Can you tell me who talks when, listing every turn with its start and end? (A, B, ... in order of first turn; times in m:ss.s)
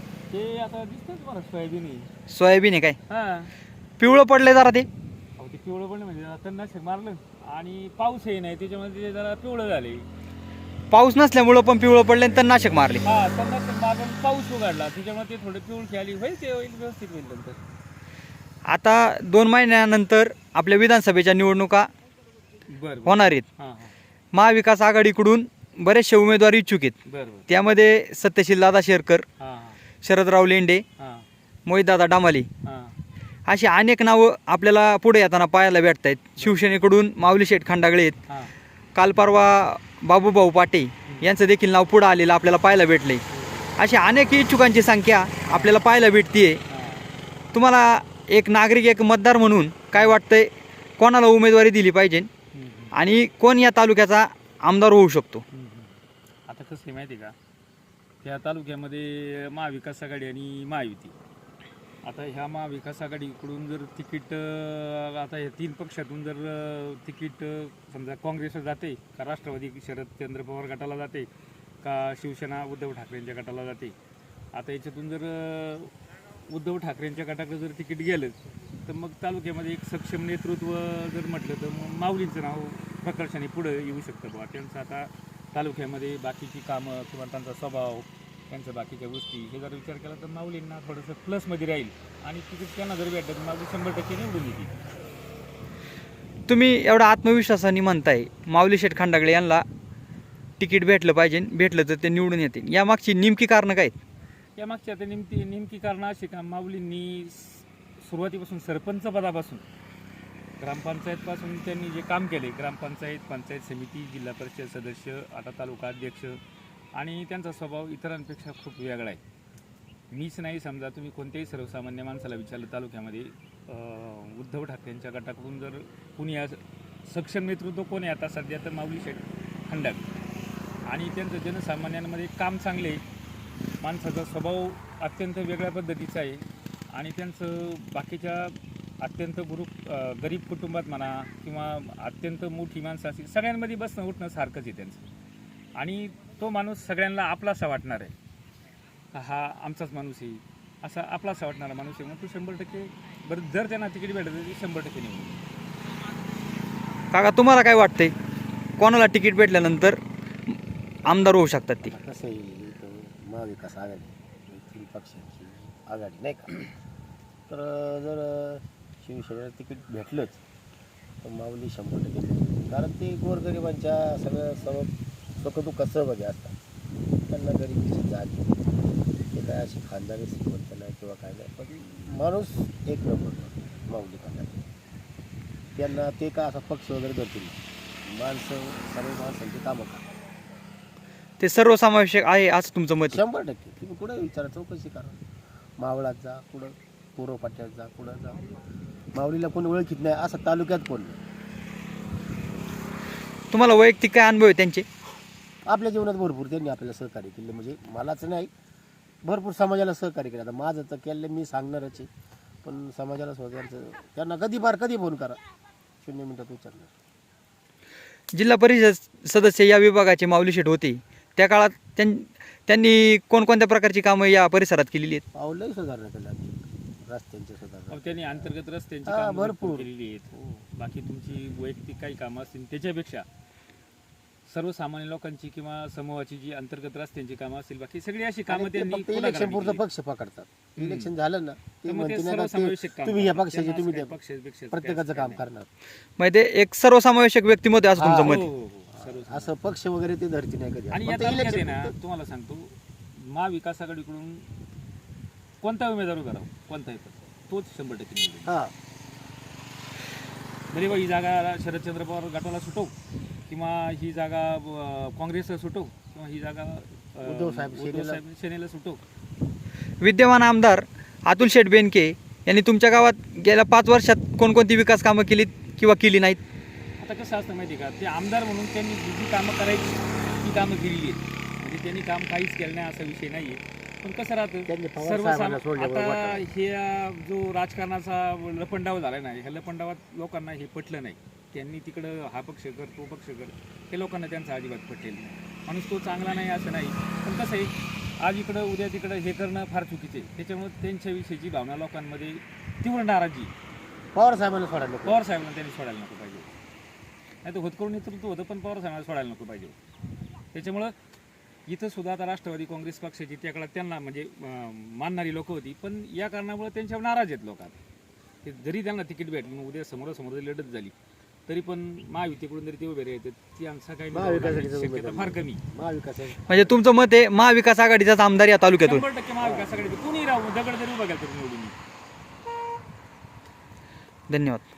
0:00.3-0:02.1 A
0:02.3-0:03.0 B
0:03.1-0:03.5 A
0:04.0-0:04.9 B
0:05.4-0:10.1 A
0:10.9-0:13.0 B
0:13.0-0:17.6 A
0:18.7-0:21.9 B
0:22.7-0:23.9 A
0:23.1-0:23.4 B
0:24.3-0:27.0 B
0:27.1-0:27.5 A
0:27.5-0:29.2 B
0:29.4-0:29.8 A
0:30.0-0:30.8 B
0:31.0-0:31.3 A
0:31.7-0:32.5 B
0:32.6-0:33.0 A
0:33.5-0:38.2 B
0:38.3-0:38.5 A
0:39.0-0:43.2 B
0:43.3-0:43.7 A
0:43.8-0:46.6 B
0:45.5-0:45.7 A
0:46.7-0:47.1 A
0:47.5-0:52.3 B
0:49.9-0:50.2 A
0:52.5-0:52.9 A
0:52.9-0:55.4 B
0:55.5-0:56.0 A
0:56.5-0:57.3 A
0:58.2-1:01.2 A
1:02.0-1:11.3 A
1:11.8-1:14.0 A
1:14.5-1:15.9 A
1:16.5-1:34.8 A
1:36.5-1:39.6 B
1:40.6-1:43.9 B
1:44.6-1:49.6 A
1:50.6-1:56.4 A
1:57.0-1:59.2 A
2:00.1-2:10.1 A
2:10.9-2:13.0 A
2:13.8-2:25.1 A
2:25.8-2:28.1 A
2:29.1-2:35.4 A
2:37.1-2:38.1 B
2:38.8-2:40.0 B
2:41.1-2:41.9 B
2:41.8-2:46.6 C
2:47.5-2:50.4 C
2:51.2-2:56.6 C
2:57.3-2:58.5 C
2:59.3-3:04.6 C
3:05.8-3:07.6 C
3:08.1-3:10.0 C
3:11.4-3:13.2 B
3:13.1-3:15.2 C
3:15.8-3:18.5 C
3:19.1-3:21.2 C
3:23.5-3:24.8 B
3:25.7-3:28.5 C
3:29.2-3:32.1 C
3:32.6-3:35.4 C
3:36.0-3:36.9 C
3:38.3-3:45.2 B
3:45.3-3:48.5 C
3:47.9-3:53.3 A
3:49.1-3:49.9 C
3:54.5-3:59.8 A
3:58.5-4:04.2 C
4:00.8-4:01.1 A
4:01.9-4:05.4 A
4:04.7-4:05.7 C
4:06.2-4:08.5 B
4:08.0-4:11.9 C
4:08.2-4:09.5 A
4:10.9-4:14.5 A
4:15.6-4:18.6 A
4:18.5-4:18.7 C
4:20.7-4:22.9 A
4:23.5-4:29.0 A
4:27.2-4:28.2 C
4:30.0-4:36.4 B
4:37.0-5:03.5 A
4:44.7-4:46.5 C
5:04.2-5:05.2 C
5:05.0-5:06.5 A
5:07.4-5:09.8 A
5:10.5-5:10.9 A
5:11.7-5:17.8 A
5:18.4-5:20.9 A
5:21.5-5:25.6 A
5:24.1-5:26.8 C
5:26.5-5:29.0 B
5:28.8-5:31.8 A
5:29.4-5:29.7 C
5:34.3-5:34.6 B